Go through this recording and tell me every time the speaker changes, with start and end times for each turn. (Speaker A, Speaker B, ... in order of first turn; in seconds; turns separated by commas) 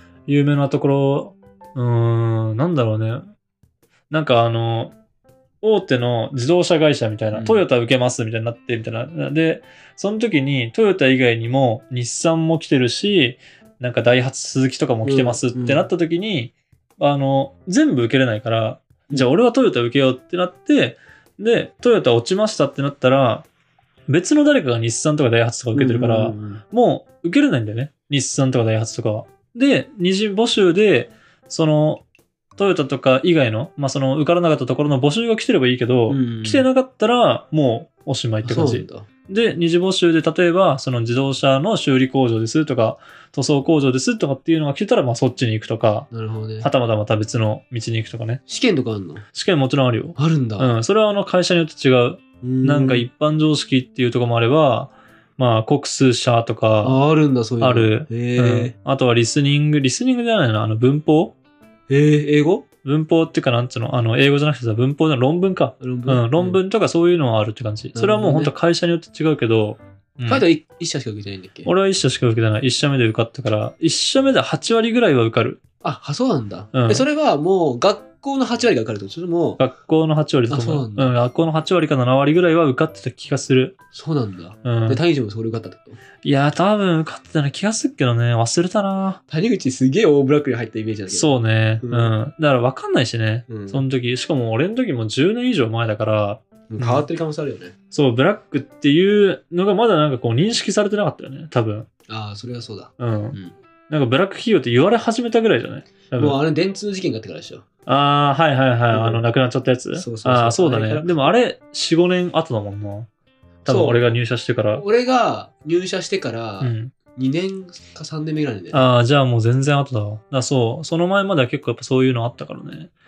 Speaker A: 0.3-3.3, Speaker A: 4.1-4.9, Speaker A: 5.6-23.5, Speaker B: 7.3-7.6, Speaker B: 15.0-15.9, Speaker A: 24.1-32.0, Speaker B: 25.7-26.6, Speaker A: 32.6-46.1, Speaker B: 36.1-36.7, Speaker B: 38.4-39.1, Speaker B: 46.1-46.7, Speaker A: 46.6-48.4, Speaker B: 48.5-49.2, Speaker A: 49.3-57.0, Speaker B: 50.1-50.7, Speaker B: 52.4-53.1, Speaker B: 56.8-58.7, Speaker A: 57.6-61.3, Speaker B: 61.9-62.6, Speaker A: 62.8-70.4, Speaker B: 65.8-66.6, Speaker B: 67.9-68.5, Speaker B: 70.2-71.7, Speaker A: 71.6-75.6, Speaker B: 75.8-79.6, Speaker A: 76.7-77.0, Speaker A: 79.6-83.7, Speaker B: 80.5-81.2, Speaker B: 83.9-86.0, Speaker A: 84.6-85.0, Speaker A: 86.2-89.2, Speaker B: 89.3-92.1, Speaker A: 91.1-97.0, Speaker B: 93.5-93.8, Speaker B: 96.7-97.7, Speaker A: 97.9-101.9, Speaker B: 102.1-103.5, Speaker A: 103.0-103.4, Speaker A: 103.9-106.4, Speaker B: 106.2-107.6, Speaker A: 107.9-113.1, Speaker B: 108.9-109.2, Speaker B: 109.9-111.3, Speaker A: 113.6-114.8, Speaker B: 113.7-114.1, Speaker B: 114.7-118.8, Speaker A: 116.6-116.9, Speaker A: 118.7-122.9